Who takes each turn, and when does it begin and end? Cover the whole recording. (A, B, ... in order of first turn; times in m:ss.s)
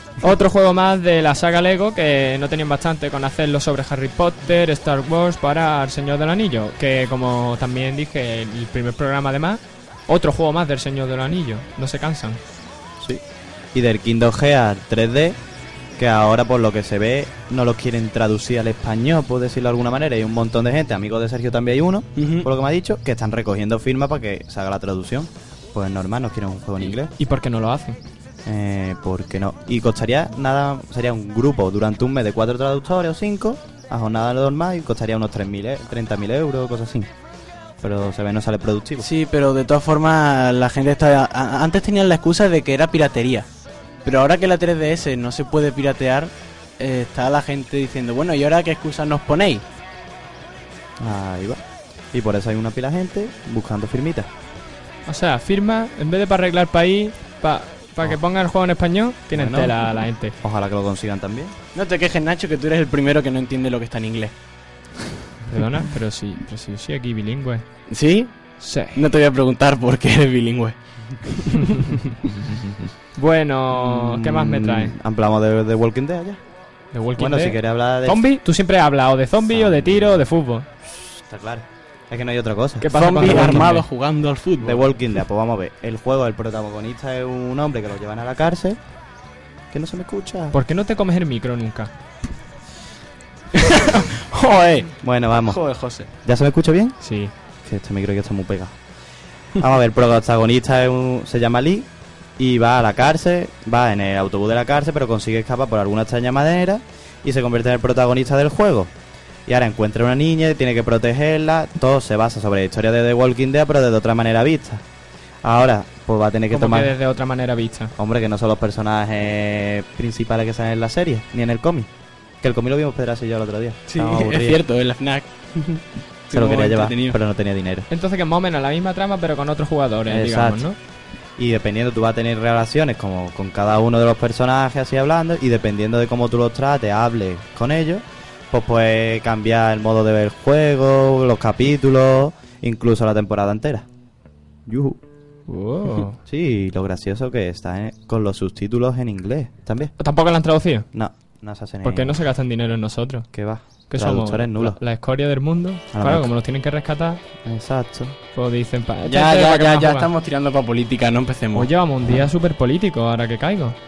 0:00.2-0:12.4 A
0:13.0-0:15.4 B
0:16.0-0:27.1 B
0:22.2-0:22.5 C
0:27.2-0:28.0 A
0:28.4-0:37.1 B
0:37.8-0:39.1 B
0:39.0-0:43.5 C
0:44.0-0:49.6 C
0:51.0-0:54.3 B
0:55.0-1:00.4 A
0:59.3-1:01.5 B
1:01.7-1:04.3 C
1:05.5-1:07.6 A
1:07.9-1:11.7 C
1:08.6-1:09.0 A
1:12.3-1:12.9 B
1:13.1-1:15.0 A
1:13.7-1:16.4 B
1:16.9-1:20.7 A
1:17.2-1:18.2 B
1:19.5-1:20.2 B
1:21.0-1:23.7 B
1:22.8-1:23.8 A
1:22.9-1:24.9 C
1:24.6-1:28.8 B
1:29.7-1:30.6 B
1:30.5-1:31.9 A
1:33.6-1:36.1 C
1:35.0-1:37.0 B
1:37.0-1:37.3 A
1:37.6-1:38.8 B
1:39.5-1:48.9 B
1:49.4-1:54.8 B
1:55.4-1:56.9 B
1:56.5-1:57.9 A
1:58.0-2:01.9 B
2:02.4-2:04.6 B
2:03.9-2:05.3 C
2:06.3-2:07.2 C
2:06.3-2:07.9 B
2:07.9-2:10.8 A
2:10.1-2:10.7 B
2:11.4-2:23.9 B
2:24.6-2:25.0 B
2:25.5-2:26.2 A
2:26.2-2:29.9 B
2:30.0-2:30.9 A
2:30.9-2:32.2 B
2:31.8-2:33.3 A
2:33.3-2:34.8 B
2:33.9-2:37.2 A
2:35.9-2:36.3 B
2:37.4-2:38.2 B
2:38.3-2:40.1 A
2:39.0-2:41.7 C
2:41.5-2:43.8 A
2:42.0-2:42.3 B